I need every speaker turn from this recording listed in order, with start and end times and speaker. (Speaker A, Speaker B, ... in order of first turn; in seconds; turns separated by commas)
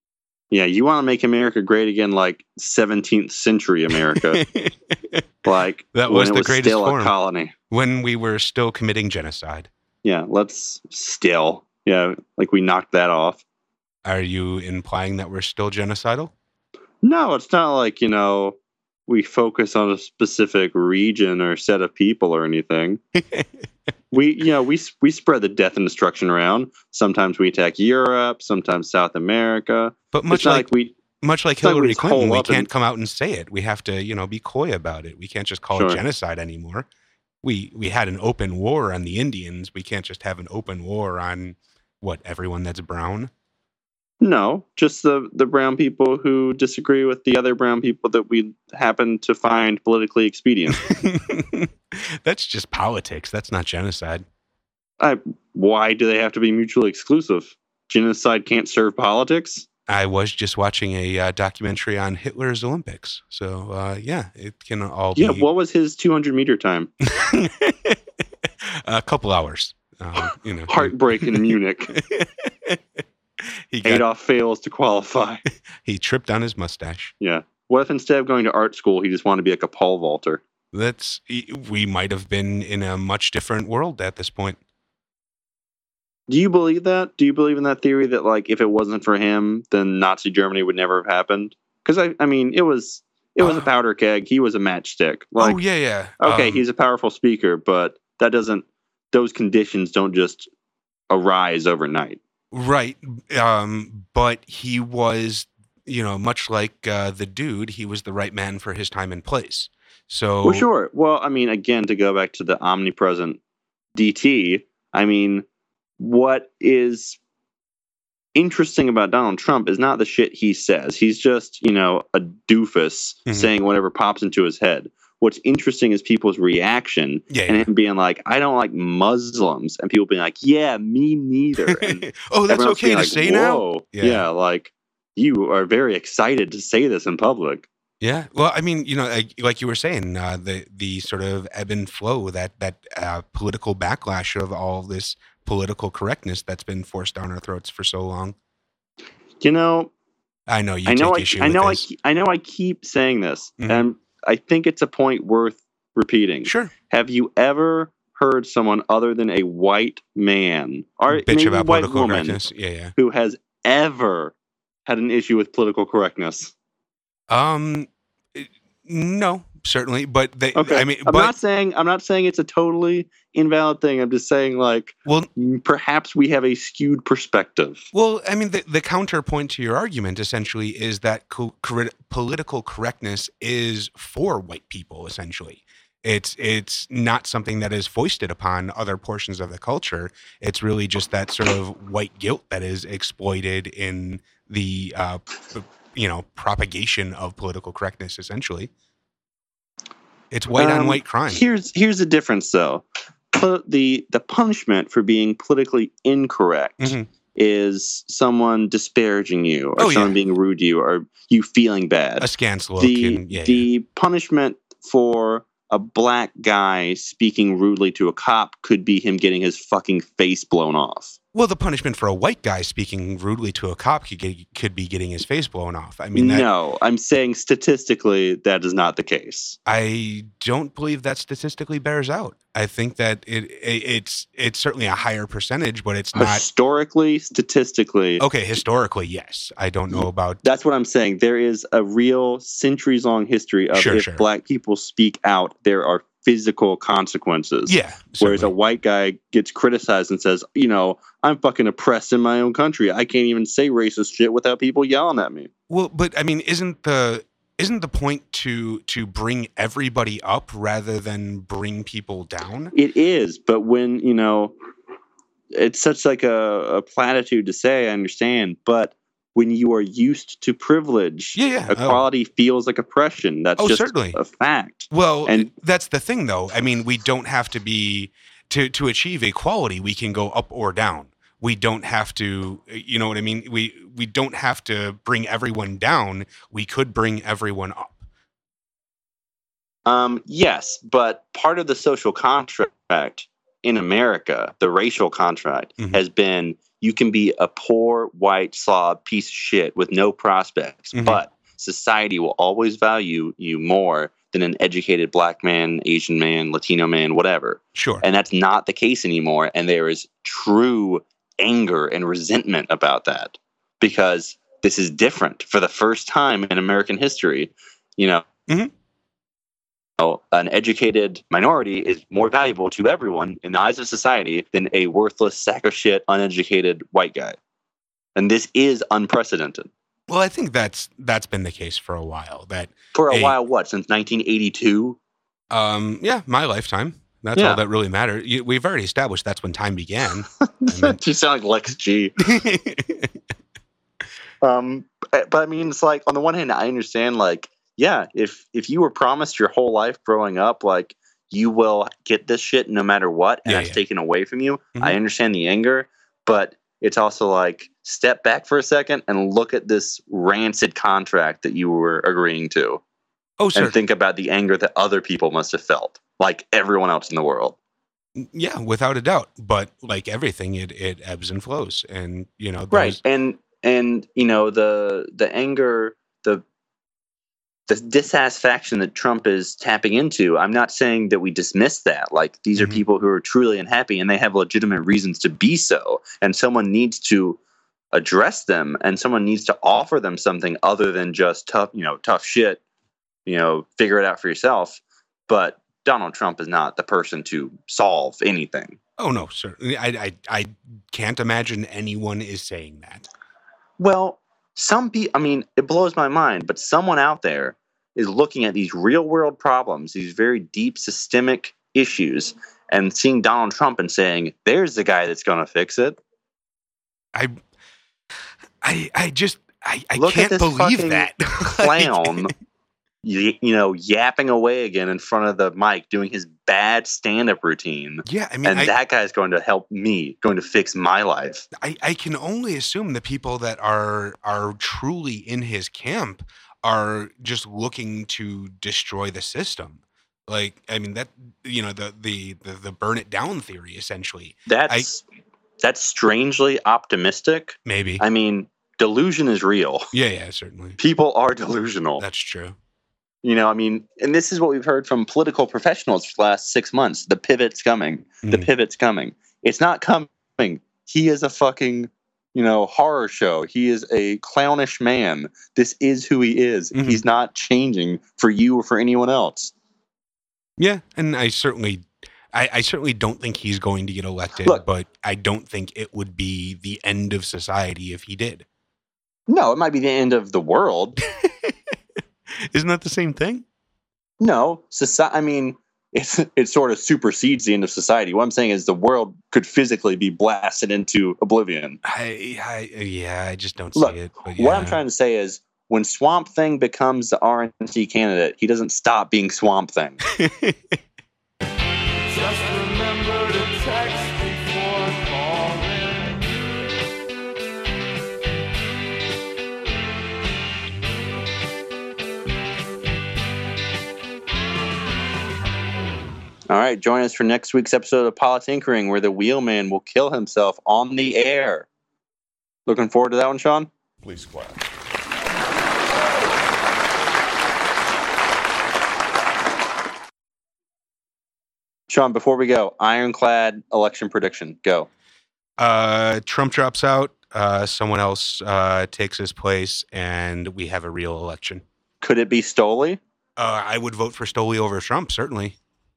Speaker A: 0.5-4.4, Speaker B: 4.1-5.2, Speaker A: 5.4-7.5, Speaker B: 5.9-7.1, Speaker B: 7.7-9.7, Speaker A: 10.0-13.4, Speaker B: 14.0-16.3, Speaker A: 17.0-18.6, Speaker A: 19.1-23.0, Speaker B: 23.2-23.4, Speaker A: 24.1-30.9, Speaker B: 30.1-30.7, Speaker B: 31.2-36.9, Speaker A: 31.6-32.7, Speaker A: 35.7-36.0, Speaker B: 37.4-43.3, Speaker A: 44.2-50.8, Speaker B: 50.8-51.7, Speaker B: 52.2-54.2, Speaker A: 55.0-59.6, Speaker B: 59.9-65.5, Speaker A: 65.2-66.9, Speaker B: 67.0-68.0, Speaker B: 68.8-72.8, Speaker A: 70.7-72.0, Speaker B: 73.7-74.0, Speaker A: 73.8-75.4, Speaker B: 75.8-77.1, Speaker A: 77.2-80.4, Speaker B: 80.7-84.6, Speaker A: 86.3-95.6, Speaker B: 93.4-93.7, Speaker B: 95.4-96.6, Speaker A: 96.2-100.5, Speaker A: 101.1-102.2, Speaker B: 102.5-110.7, Speaker A: 110.4-113.4, Speaker A: 113.9-115.4, Speaker A: 116.0-117.2, Speaker A: 118.3-137.7, Speaker B: 123.3-123.5, Speaker B: 127.3-127.7, Speaker B: 131.7-134.2, Speaker B: 138.0-148.3, Speaker A: 149.4-149.9, Speaker B: 150.5-151.8, Speaker A: 150.8-162.4, Speaker B: 153.6-153.8, Speaker B: 156.4-156.7, Speaker B: 161.1-162.9, Speaker A: 162.9-164.3, Speaker A: 164.8-166.5, Speaker B: 167.3-171.3, Speaker A: 170.5-177.8, Speaker B: 177.9-198.7, Speaker B: 200.3-201.4, Speaker A: 200.5-221.2, Speaker B: 206.8-207.1, Speaker B: 209.8-210.1, Speaker B: 212.2-213.7, Speaker B: 221.3-226.5, Speaker A: 226.1-229.6, Speaker B: 229.7-236.4, Speaker A: 236.1-238.2, Speaker B: 238.2-240.4, Speaker A: 239.9-255.5, Speaker B: 243.7-244.2, Speaker B: 247.7-248.5, Speaker B: 255.7-262.7, Speaker A: 262.7-264.5, Speaker A: 265.5-275.5, Speaker B: 271.4-272.0, Speaker B: 273.6-274.2, Speaker B: 274.9-288.0, Speaker A: 289.9-318.2, Speaker B: 300.9-301.2, Speaker B: 307.7-308.0, Speaker A: 320.0-327.4, Speaker A: 328.1-329.7, Speaker B: 330.1-333.4, Speaker A: 332.9-335.0, Speaker B: 335.5-341.0, Speaker A: 337.4-337.6, Speaker A: 340.6-342.2, Speaker B: 342.2-343.1, Speaker A: 344.4-362.8, Speaker B: 353.4-353.8, Speaker B: 363.4-363.8, Speaker A: 363.5-367.6, Speaker B: 368.2-373.0, Speaker A: 372.7-376.4, Speaker A: 377.7-387.4, Speaker B: 382.6-382.8, Speaker A: 387.9-392.6, Speaker A: 393.2-398.8, Speaker B: 399.0-403.0, Speaker A: 403.8-416.0, Speaker B: 418.6-422.3, Speaker A: 420.0-422.3, Speaker A: 423.0-431.4, Speaker B: 428.0-428.7, Speaker B: 431.6-444.9, Speaker A: 444.5-445.0, Speaker A: 445.6-449.9, Speaker B: 447.6-448.0, Speaker B: 449.9-450.8, Speaker A: 450.8-452.0, Speaker B: 452.0-452.5, Speaker A: 453.2-469.5, Speaker B: 466.7-467.0, Speaker B: 470.6-478.4, Speaker A: 479.3-481.0, Speaker B: 481.2-481.5, Speaker B: 482.5-483.4, Speaker A: 484.2-491.8, Speaker B: 491.8-494.8, Speaker A: 493.7-500.0, Speaker B: 500.2-500.7, Speaker C: 502.1-506.3, Speaker A: 516.5-521.7, Speaker A: 522.7-523.7, Speaker A: 531.9-534.9, Speaker B: 535.6-541.6, Speaker A: 542.0-543.0, Speaker B: 543.4-545.5